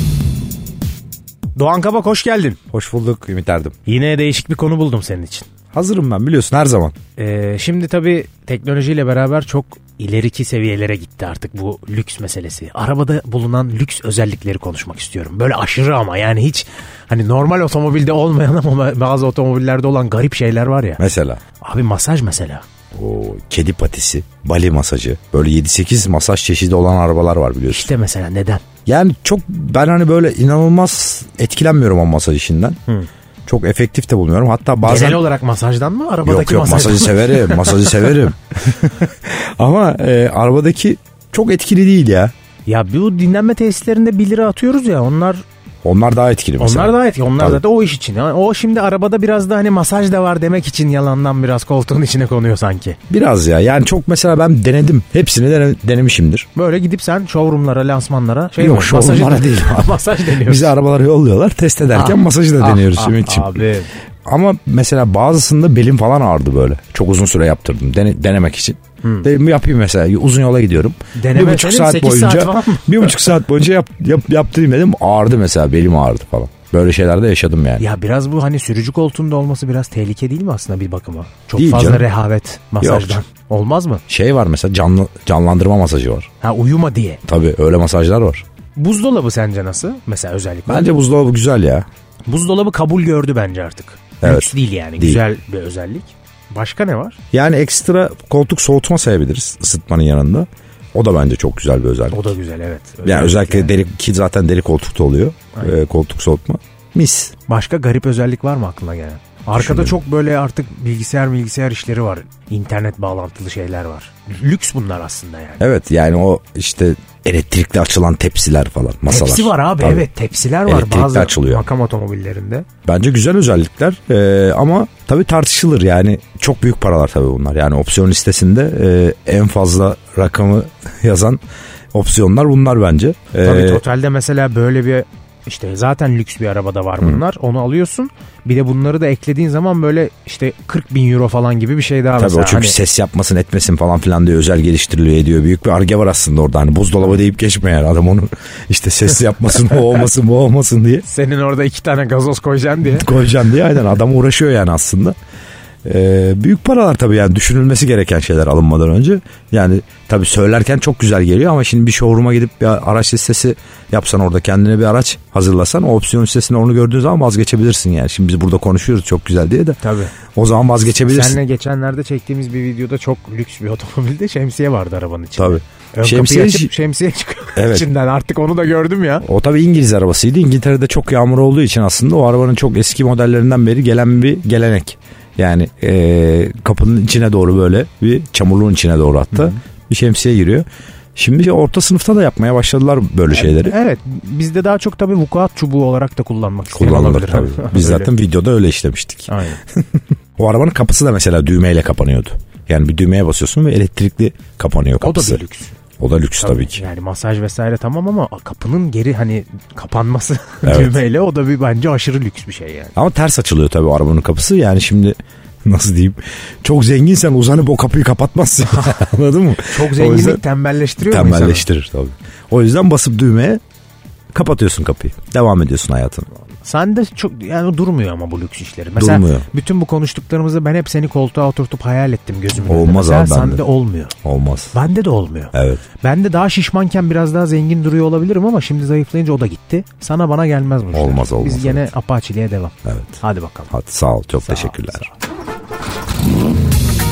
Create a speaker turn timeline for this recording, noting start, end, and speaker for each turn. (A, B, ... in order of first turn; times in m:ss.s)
0:01.6-0:02.6 A
0:02.7-0:03.7 B
0:03.8-0:05.5 A
0:05.7-0:07.0 B
0:07.2-0:21.0 A
0:21.0-0:21.4 B
0:21.6-0:22.6 A
0:22.9-0:27.9 B
0:27.7-0:28.6 A
0:28.8-0:32.8 B
0:33.4-0:35.2 B
0:34.8-0:38.1 A
0:36.2-0:42.3 B
0:42.6-0:45.4 A
0:45.8-0:47.6 B
0:46.6-0:53.0 A
0:53.1-0:56.5 B
0:56.5-1:00.7 A
0:58.6-1:03.6 B
1:01.9-1:03.9 A
1:04.2-1:17.8 B
1:09.0-1:09.3 A
1:11.1-1:13.3 A
1:17.8-1:24.0 A
1:21.6-1:22.0 B
1:22.8-1:23.2 B
1:24.1-1:26.3 B
1:26.4-1:27.2 A
1:27.2-1:28.4 B
1:28.8-1:30.9 A
1:30.7-1:31.8 B
1:32.3-1:37.2 A
1:34.2-1:35.2 B
1:37.3-1:42.3 B
1:42.1-1:43.7 A
1:43.0-1:47.3 B
1:47.5-1:55.6 A
1:49.5-1:50.0 B
1:55.6-2:00.1 B
1:59.1-2:02.6 A
2:00.6-2:01.6 B
2:02.8-2:11.4 B
2:11.9-2:13.8 B
2:13.4-2:22.8 A
2:22.2-2:31.0 B
2:31.0-2:33.1 A
2:32.9-2:35.2 B
2:35.8-2:49.8 B
2:49.8-2:50.1 A
2:50.3-2:51.4 B
2:51.1-2:59.2 A
2:55.4-2:56.7 B
2:57.6-2:57.9 B
2:59.2-3:10.6 B
3:09.3-3:09.6 A
3:11.2-3:13.8 B
3:13.3-3:18.1 A
3:16.7-3:25.4 B
3:19.3-3:19.6 A
3:25.0-3:25.8 A
3:26.0-3:26.8 B
3:26.4-3:32.9 A
3:30.6-3:31.0 B
3:33.0-3:40.4 B
3:39.6-3:41.6 A
3:41.0-3:43.6 B
3:44.3-3:46.2 B
3:46.6-3:54.1 A
3:49.0-3:49.5 B
3:52.5-3:53.6 B
3:54.2-3:54.7 B
3:54.7-4:03.7 A
3:55.5-3:55.8 B
4:00.9-4:01.8 B
4:02.8-4:03.2 B
4:03.7-4:05.1 B
4:04.4-4:05.1 A